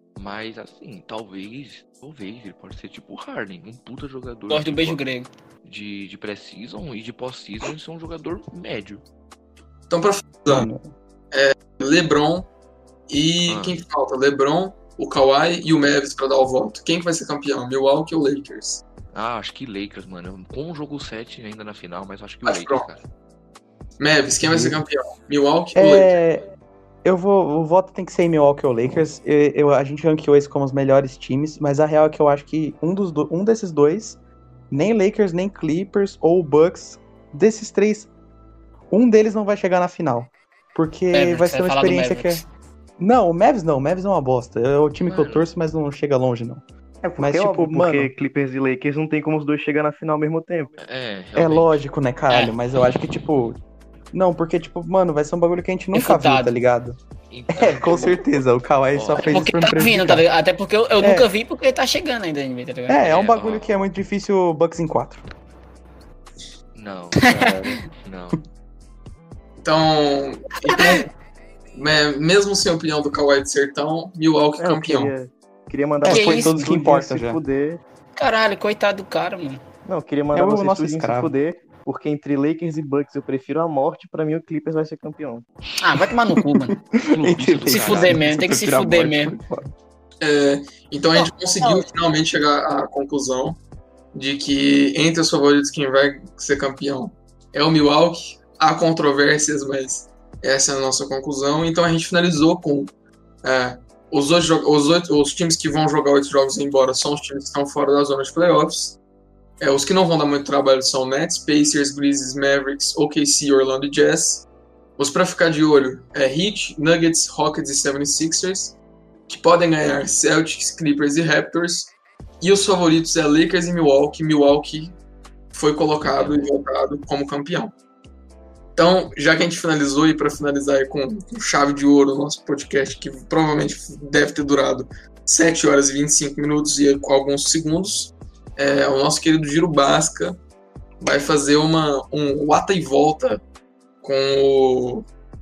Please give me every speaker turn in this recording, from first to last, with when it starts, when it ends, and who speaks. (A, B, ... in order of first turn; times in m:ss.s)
0:00.2-0:05.0 A
0:04.5-0:05.3 B
0:05.6-0:09.0 A
0:09.9-0:10.7 C
0:10.5-0:10.9 D
0:11.3-0:12.5 C
0:13.1-0:18.8 C
0:13.5-0:13.8 A
0:19.1-0:23.0 A
0:22.4-0:22.9 C
0:24.0-0:26.2 C
0:25.8-0:26.4 D
0:27.0-0:34.2 D
0:34.7-0:38.1 D
0:38.9-0:42.4 D
0:41.1-0:42.4 B
0:43.0-0:46.6 D
0:45.0-0:45.5 A
0:47.0-0:50.7 E
0:47.2-0:48.1 D
0:50.8-0:51.8 A
0:51.4-0:53.6 D
0:54.1-0:57.0 D
0:55.9-0:56.6 B
0:57.3-0:58.3 A
0:57.5-1:00.3 D
0:58.9-0:59.4 A
0:59.3-1:03.0 B
1:01.0-1:01.3 D
1:02.9-1:05.2 D
1:03.0-1:03.7 A
1:06.8-1:08.4 A
1:09.6-1:11.1 C
1:10.7-1:11.0 B
1:11.7-1:15.1 C
1:14.6-1:17.8 E
1:16.0-1:16.7 B
1:16.0-1:17.4 D
1:18.2-1:19.6 B
1:19.8-1:25.5 E
1:20.3-1:21.3 D
1:25.8-1:26.8 B
1:26.4-1:29.7 D
1:27.1-1:28.2 A
1:27.7-1:29.4 B
1:30.2-1:33.6 C
1:31.2-1:31.8 B
1:34.1-1:42.9 C
1:43.4-1:49.0 C
1:49.6-1:54.4 C
1:55.0-1:58.8 C
1:59.3-2:05.0 C
2:05.5-2:07.7 C
2:06.0-2:06.5 A
2:08.8-2:20.4 C
2:21.0-2:23.4 C
2:24.0-2:25.1 C